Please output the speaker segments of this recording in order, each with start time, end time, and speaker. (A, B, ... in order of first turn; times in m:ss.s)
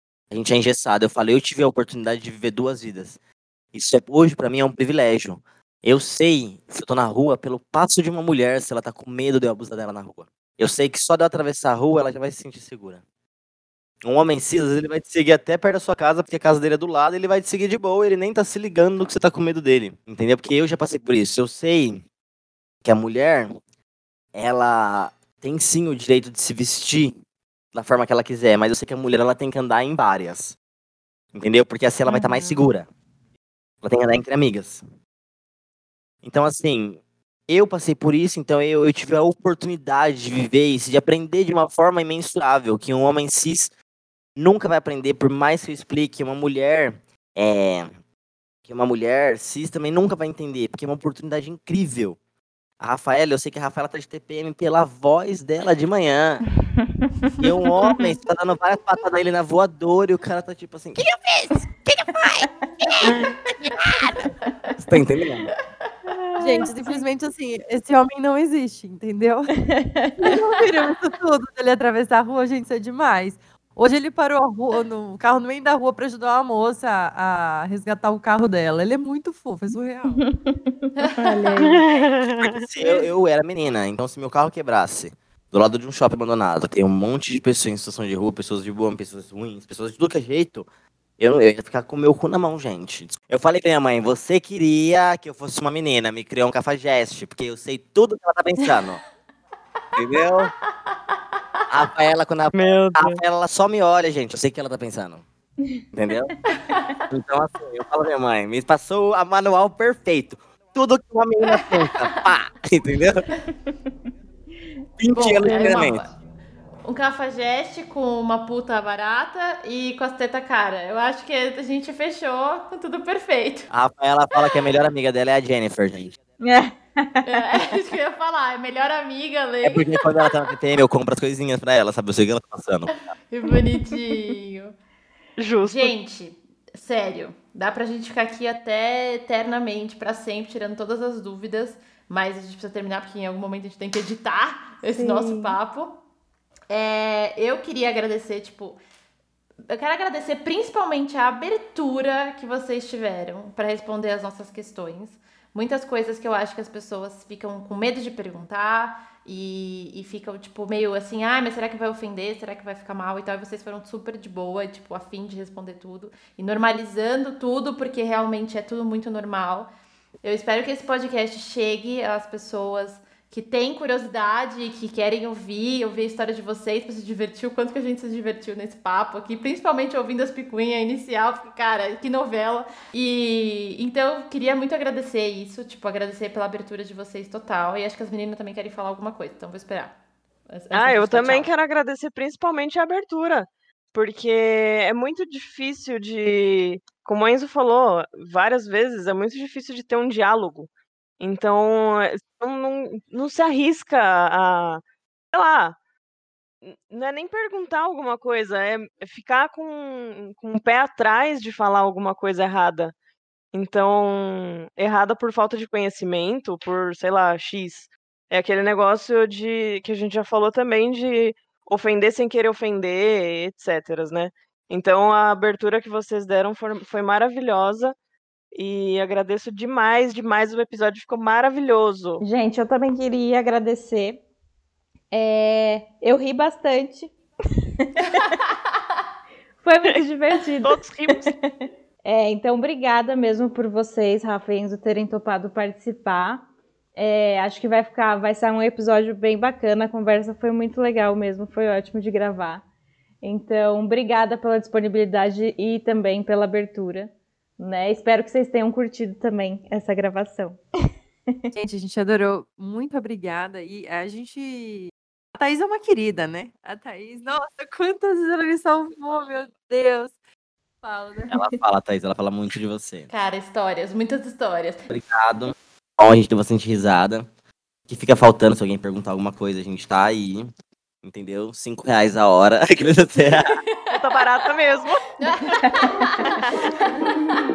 0:00.3-0:03.2 A
0:03.7-0:13.0 A
0:14.0-0:22.0 A
0:22.8-0:23.5 A
0:24.3-0:27.1 A
0:27.7-0:30.6 A
0:31.3-0:32.9 A
0:32.1-0:32.7 B
0:33.8-0:34.8 A
0:36.2-0:43.7 A
0:44.4-0:47.9 A
0:48.6-0:52.2 A
0:52.8-0:56.5 A
0:57.4-1:01.2 A
1:02.1-1:02.5 C
1:02.8-1:04.1 A
1:04.8-1:05.5 A
1:06.4-1:09.5 D
1:06.4-1:06.7 C
1:09.6-1:10.4 C
1:10.2-1:20.2 D
1:20.2-1:21.8 C
1:21.0-1:21.5 E
1:21.6-1:23.1 B
1:21.9-1:30.7 A
1:31.2-1:39.0 A
1:39.9-1:40.5 A
1:40.9-1:41.1 E
1:41.7-1:45.2 A
1:42.5-1:43.2 B
1:45.9-1:46.4 A
1:47.1-1:53.3 A
1:55.0-1:56.1 A
1:55.1-1:56.1 E
1:55.4-1:55.9 C
1:56.8-2:03.7 E
2:03.7-2:06.1 A
2:06.4-2:07.8 C
2:07.2-2:10.2 E
2:09.6-2:12.9 A
2:13.3-2:14.8 E
2:15.4-2:15.9 B
2:15.6-2:26.0 E
2:25.0-2:25.6 C
2:26.7-2:28.8 E
2:29.7-2:49.7 E
2:50.2-3:10.0 E
3:10.5-3:11.5 E
3:10.7-3:25.8 B
3:26.6-3:32.9 B
3:33.5-3:48.0 B
3:48.5-3:52.2 B
3:52.2-3:54.2 C
3:55.1-3:57.1 C
3:58.0-3:58.4 C
3:59.6-4:01.3 C
4:00.6-4:01.3 B
4:02.0-4:12.6 C
4:13.2-4:20.6 C
4:21.5-4:30.2 D
4:30.8-4:31.3 D
4:31.3-4:33.1 A
4:33.1-4:34.9 E
4:34.9-4:37.3 A
4:37.9-4:40.5 A
4:41.0-4:43.6 A
4:43.9-4:45.6 B
4:45.2-4:47.0 E